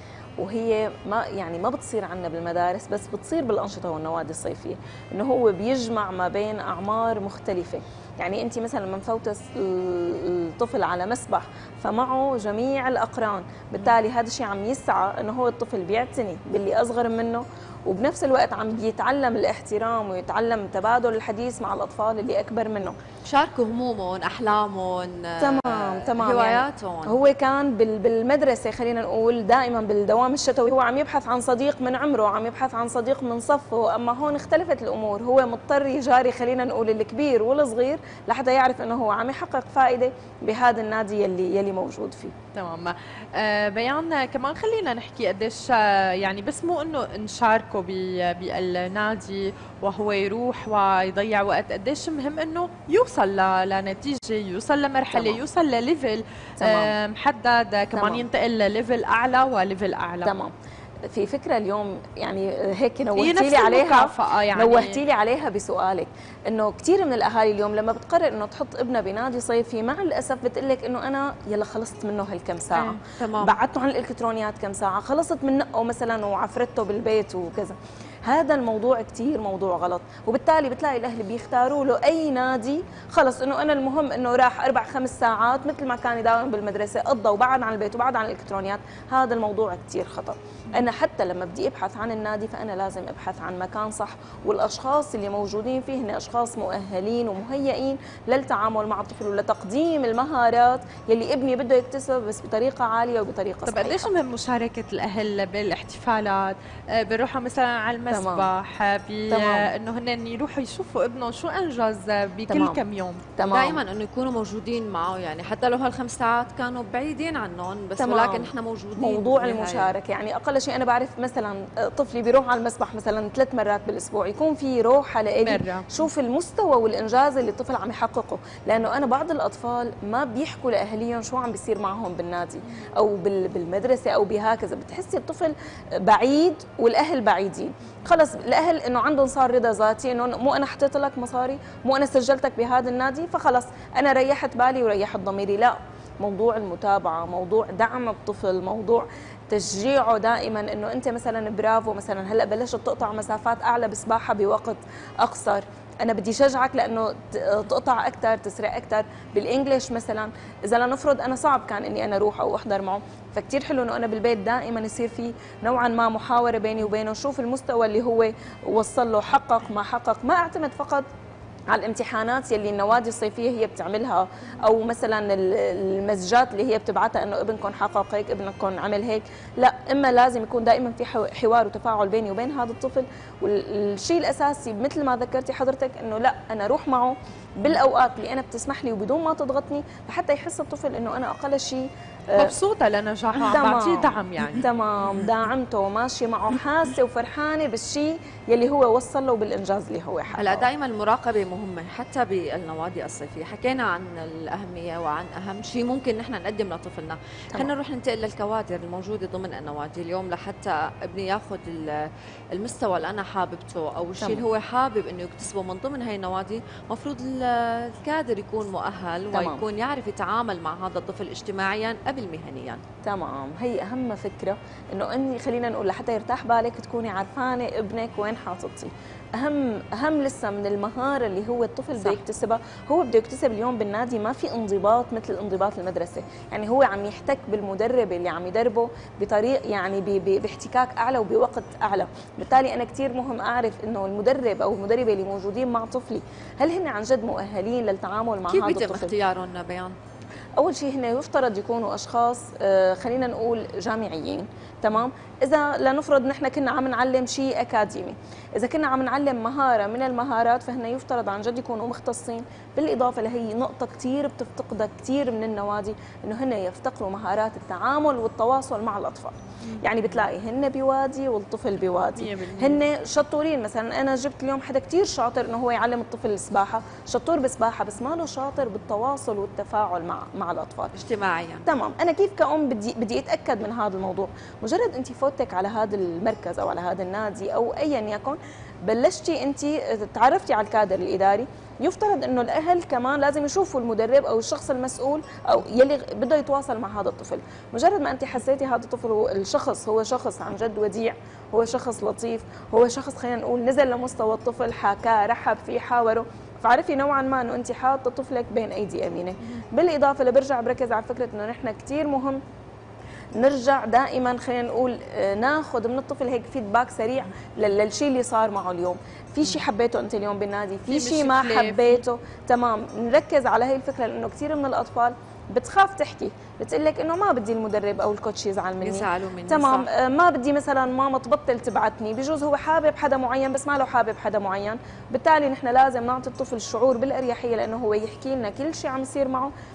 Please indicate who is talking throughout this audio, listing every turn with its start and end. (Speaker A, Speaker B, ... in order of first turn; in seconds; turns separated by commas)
Speaker A: 0.4-23.0, Speaker B: 23.2-27.2, Speaker A: 25.4-42.3, Speaker C: 42.5-60.3, Speaker A: 55.1-55.4, Speaker A: 56.6-56.9, Speaker A: 58.0-58.2, Speaker A: 60.2-60.5, Speaker A: 61.1-104.1, Speaker C: 63.2-65.0, Speaker B: 72.7-73.6, Speaker C: 103.7-113.2, Speaker A: 108.1-108.5, Speaker A: 109.3-109.7, Speaker A: 112.5-112.8, Speaker A: 113.4-113.8, Speaker B: 113.5-119.9, Speaker A: 118.0-171.1, Speaker C: 125.4-125.9, Speaker A: 171.7-192.6, Speaker C: 192.4-194.7, Speaker A: 193.3-200.7, Speaker B: 200.4-222.8, Speaker A: 219.3-219.6, Speaker A: 223.0-249.1, Speaker B: 232.0-232.2, Speaker B: 248.5-249.9, Speaker A: 250.6-280.9, Speaker C: 272.2-272.8, Speaker B: 280.9-281.7, Speaker A: 281.6-312.4, Speaker A: 313.4-339.5, Speaker C: 320.9-322.0, Speaker B: 328.8-329.9